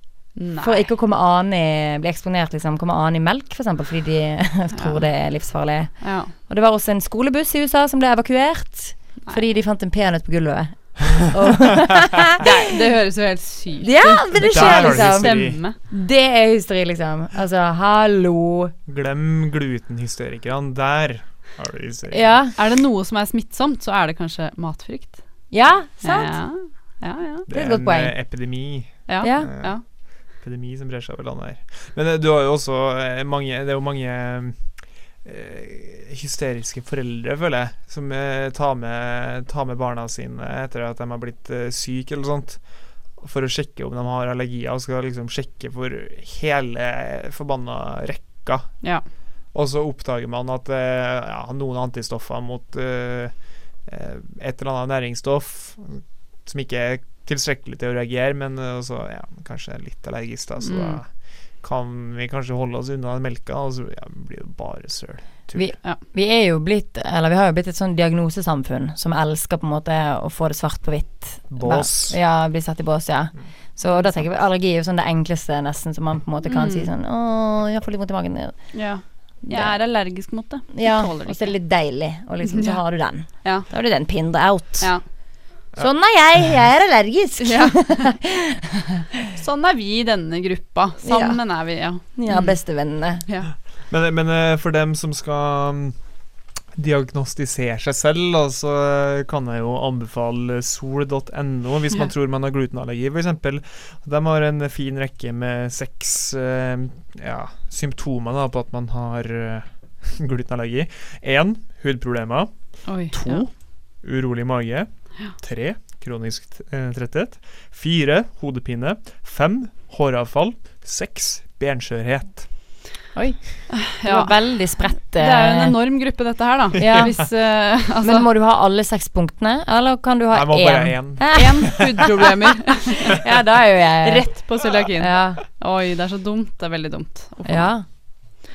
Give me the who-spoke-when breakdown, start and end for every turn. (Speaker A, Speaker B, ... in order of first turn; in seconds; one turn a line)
Speaker A: 0.3-0.9
Speaker B: 0.6-12.4
Speaker A: 4.7-5.0
Speaker A: 6.0-6.3
Speaker A: 12.4-15.8
Speaker B: 13.8-18.7
Speaker C: 14.4-15.6
Speaker C: 18.9-22.3
Speaker B: 22.1-22.5
Speaker A: 22.5-25.2
Speaker B: 25.5-26.3
Speaker A: 26.0-27.5
Speaker C: 27.5-48.8
Speaker B: 27.5-28.1
Speaker A: 29.1-29.8
Speaker B: 29.2-29.5
Speaker C: 49.5-65.7
Speaker A: 60.6-61.0
Speaker B: 65.5-78.7
Speaker C: 71.5-72.2
Speaker A: 76.4-76.9
Speaker A: 78.7-81.5
Speaker B: 79.5-79.8
Speaker B: 80.7-84.9
Speaker A: 82.4-82.8
Speaker A: 83.4-83.7
Speaker B: 85.8-89.3
Speaker A: 87.4-88.1
Speaker A: 89.4-92.6
Speaker B: 91.0-91.4
Speaker B: 92.0-93.2
Speaker C: 93.9-96.0
Speaker C: 96.7-122.5
Speaker A: 112.8-113.4
Speaker B: 123.1-125.8
Speaker A: 123.7-124.3
Speaker A: 125.0-128.3
Speaker B: 126.8-127.3
Speaker B: 128.0-132.1
Speaker C: 130.3-131.8
Speaker A: 131.3-133.2
Speaker B: 133.0-135.4
Speaker A: 134.0-137.7
Speaker B: 137.4-137.8